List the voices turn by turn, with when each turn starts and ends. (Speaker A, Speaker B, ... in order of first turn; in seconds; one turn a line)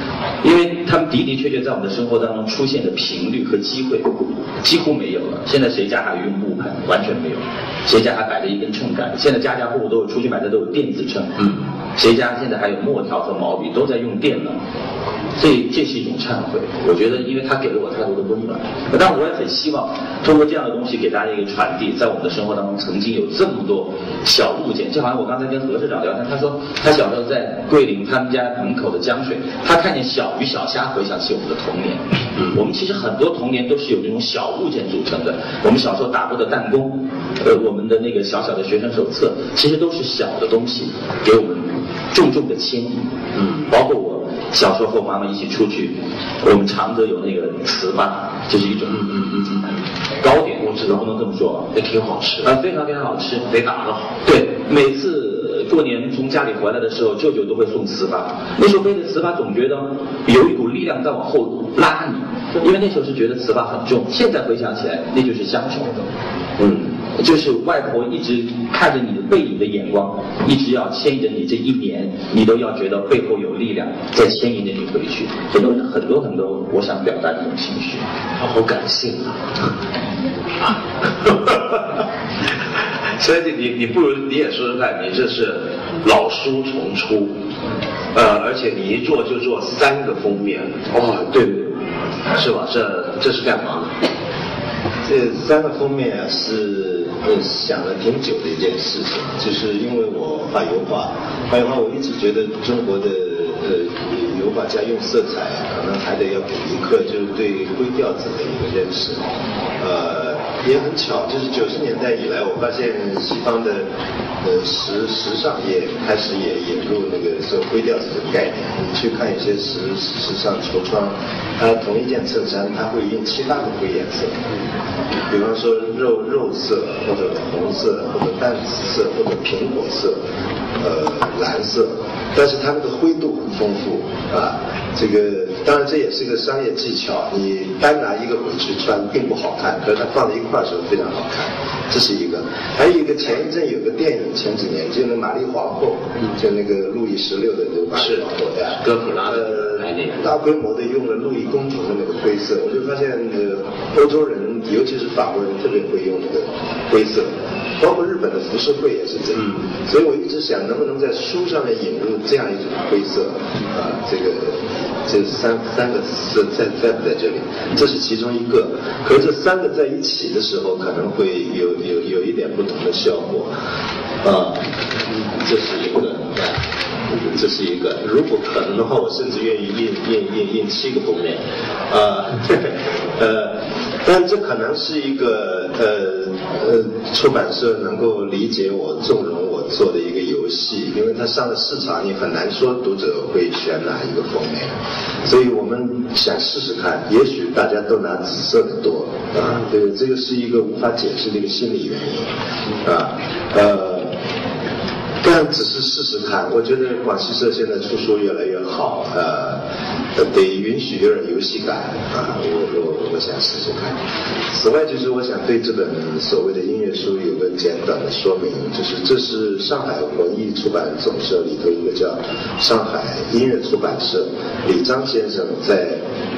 Speaker A: 0.4-11.4
Speaker A: 11.9-14.6
Speaker A: 15.4-43.0
Speaker A: 43.7-49.6
Speaker A: 50.2-51.7
Speaker B: 51.7-52.5
Speaker A: 52.4-53.4
Speaker B: 53.5-54.1
Speaker A: 54.2-66.0
Speaker A: 66.6-78.0
Speaker B: 78.4-79.4
Speaker B: 81.2-81.6
Speaker B: 83.2-87.3
Speaker B: 88.1-91.7
Speaker B: 92.3-93.9
Speaker C: 95.0-109.2
Speaker C: 109.8-113.9
Speaker C: 114.4-124.3
Speaker C: 125.3-130.2
Speaker C: 130.8-173.5
Speaker B: 148.0-148.2
Speaker B: 148.8-150.2
Speaker C: 174.2-174.7
Speaker C: 175.3-176.5
Speaker C: 177.1-194.7
Speaker C: 195.2-202.3
Speaker C: 202.8-204.1
Speaker C: 205.2-209.6
Speaker C: 210.2-214.0
Speaker C: 214.5-226.0